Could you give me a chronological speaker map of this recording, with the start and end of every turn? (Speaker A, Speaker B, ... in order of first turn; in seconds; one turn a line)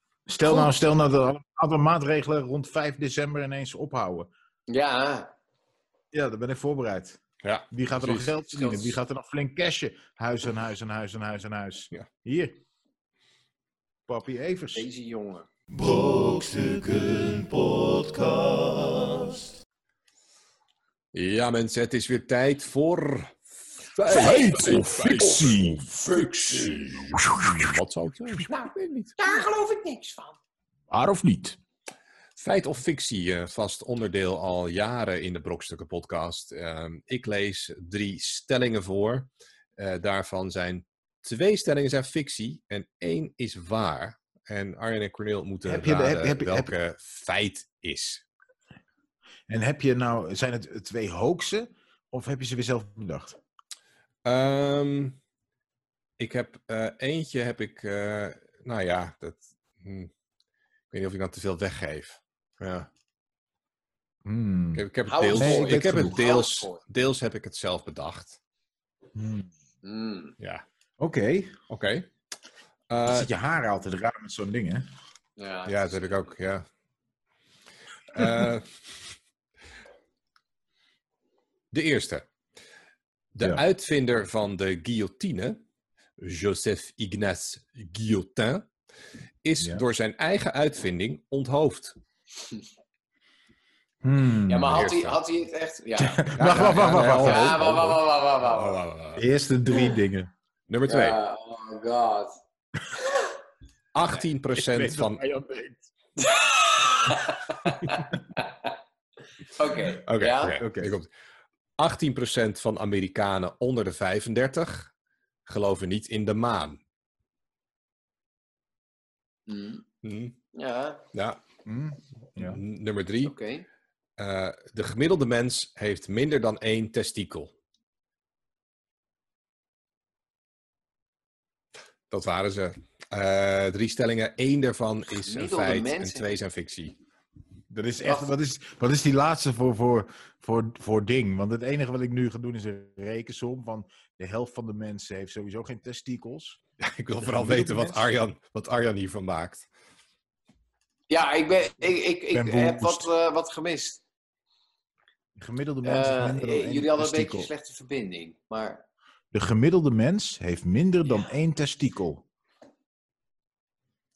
Speaker A: 0.3-4.3
Speaker B: 0.5-0.7
Speaker B: 4.7-5.3
Speaker A: 6.1-7.2
Speaker C: 7.4-8.3
Speaker A: 7.7-12.6
Speaker B: 8.5-8.9
Speaker A: 14.1-14.9
Speaker B: 14.7-15.5
Speaker D: 15.7-19.5
Speaker C: 21.1-25.7
Speaker A: 24.1-26.1
Speaker C: 26.5-29.2
Speaker A: 27.1-27.7
Speaker B: 29.2-30.4
Speaker A: 30.9-31.6
Speaker C: 32.4-48.2
Speaker A: 45.6-46.7
Speaker A: 49.5-53.4
Speaker C: 54.2-55.2
Speaker C: 56.2-60.1
Speaker C: 60.9-62.9
Speaker A: 64.2-66.2
Speaker C: 64.8-68.4
Speaker B: 65.1-66.8
Speaker A: 69.1-69.5
Speaker B: 69.8-70.4
Speaker A: 71.0-71.6
Speaker C: 71.7-72.1
Speaker C: 72.9-73.3
Speaker A: 73.0-74.9
Speaker B: 75.4-76.3
Speaker C: 75.7-76.7
Speaker C: 78.1-79.1
Speaker C: 81.7-82.3
Speaker C: 83.3-85.6
Speaker C: 86.2-88.7
Speaker C: 89.4-91.9
Speaker A: 94.0-94.9
Speaker B: 94.5-98.8
Speaker C: 94.7-95.2
Speaker A: 96.0-97.6
Speaker C: 96.4-99.2
Speaker A: 99.2-100.3
Speaker C: 100.7-101.2
Speaker B: 100.9-102.4
Speaker C: 103.9-105.2
Speaker A: 104.6-105.9
Speaker B: 106.2-108.8
Speaker B: 109.5-110.6
Speaker C: 110.1-111.1
Speaker A: 110.5-111.0
Speaker C: 111.8-114.9
Speaker C: 115.5-116.8
Speaker B: 119.5-119.8
Speaker C: 120.0-120.4
Speaker B: 120.5-121.0
Speaker C: 121.1-121.4
Speaker A: 121.7-122.6
Speaker C: 122.4-123.3
Speaker B: 123.2-123.7
Speaker C: 124.2-127.5
Speaker C: 132.1-137.0
Speaker B: 135.1-136.3
Speaker A: 137.7-146.6
Speaker B: 138.0-138.3
Speaker C: 146.8-149.7
Speaker A: 147.2-148.1
Speaker B: 151.1-154.0
Speaker A: 152.3-153.1
Speaker A: 155.4-157.5
Speaker B: 155.8-158.8
Speaker A: 159.3-162.2
Speaker B: 161.1-161.3